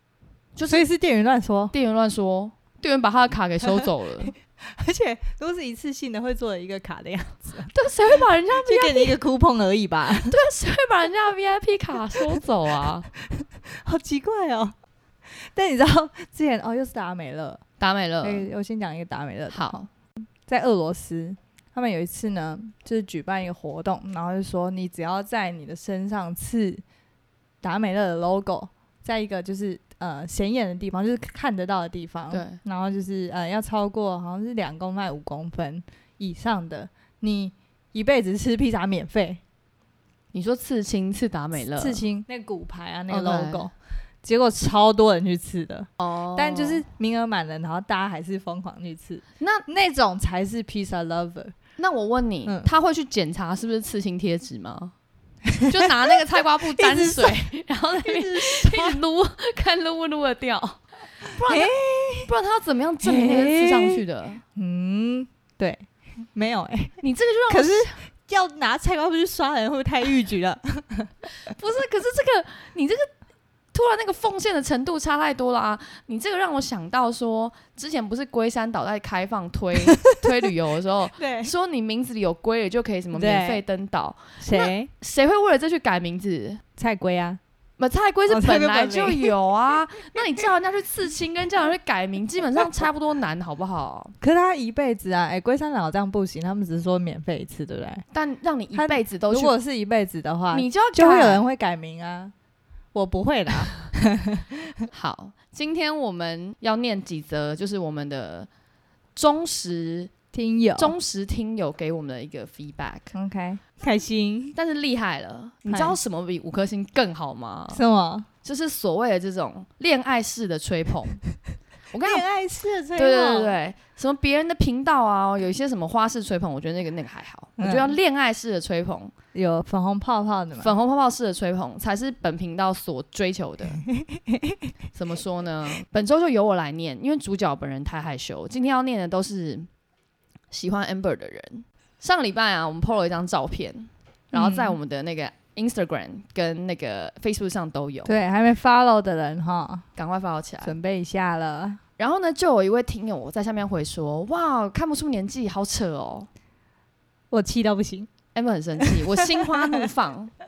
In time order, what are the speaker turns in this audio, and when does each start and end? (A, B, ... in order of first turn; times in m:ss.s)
0:00.6-0:00.8 A
0:00.7-0:01.7 B
0:01.7-0:04.3 A
0:04.6-0:10.3 B
0:07.7-0:09.1 A
0:10.2-0:13.1 A
0:13.1-0:14.7 B
0:15.3-0:17.6 B
0:17.8-0:18.5 A
0:18.2-0:19.8 B
0:19.5-0:19.9 A
0:20.4-0:26.8 B
0:27.6-0:39.4 B
0:32.3-0:32.6 A
0:40.3-0:42.0 A
0:41.8-0:51.5 B
0:43.1-0:43.7 A
0:46.0-0:46.8 A
0:49.4-0:49.7 A
0:51.8-0:54.9 A
0:55.6-1:04.4 A
0:56.8-0:59.0 B
1:01.5-1:02.3 B
1:03.0-1:04.0 B
1:04.6-1:07.0 B
1:07.0-1:07.9 A
1:07.5-1:11.1 B
1:11.5-1:13.1 A
1:13.7-1:26.6 A
1:20.0-1:20.3 B
1:21.2-1:21.5 B
1:23.1-1:23.6 B
1:24.4-1:24.9 B
1:26.8-1:27.4 B
1:27.8-1:34.1 A
1:28.3-1:29.3 B
1:34.2-1:38.0 B
1:38.1-1:39.5 A
1:38.7-1:42.3 B
1:40.5-1:41.4 A
1:42.9-1:44.9 B
1:44.9-1:48.5 A
1:49.2-1:50.1 A
1:50.3-1:50.9 B
1:50.8-1:53.1 A
1:53.1-1:54.6 B
1:54.5-1:57.8 A
1:55.7-1:56.0 B
1:57.7-1:58.3 B
1:58.4-2:01.2 A
2:01.9-2:02.2 A
2:02.0-2:03.6 B
2:03.0-2:09.1 A
2:07.6-2:07.9 B
2:09.3-2:10.7 B
2:10.6-2:13.8 A
2:13.9-2:14.6 B
2:14.9-2:19.7 A
2:20.5-2:28.1 A
2:24.3-2:24.8 B
2:28.0-2:29.8 B
2:30.0-2:30.7 A
2:30.6-2:31.8 B
2:32.0-2:36.3 A
2:37.3-2:38.1 B
2:38.3-2:40.3 A
2:38.8-2:39.9 B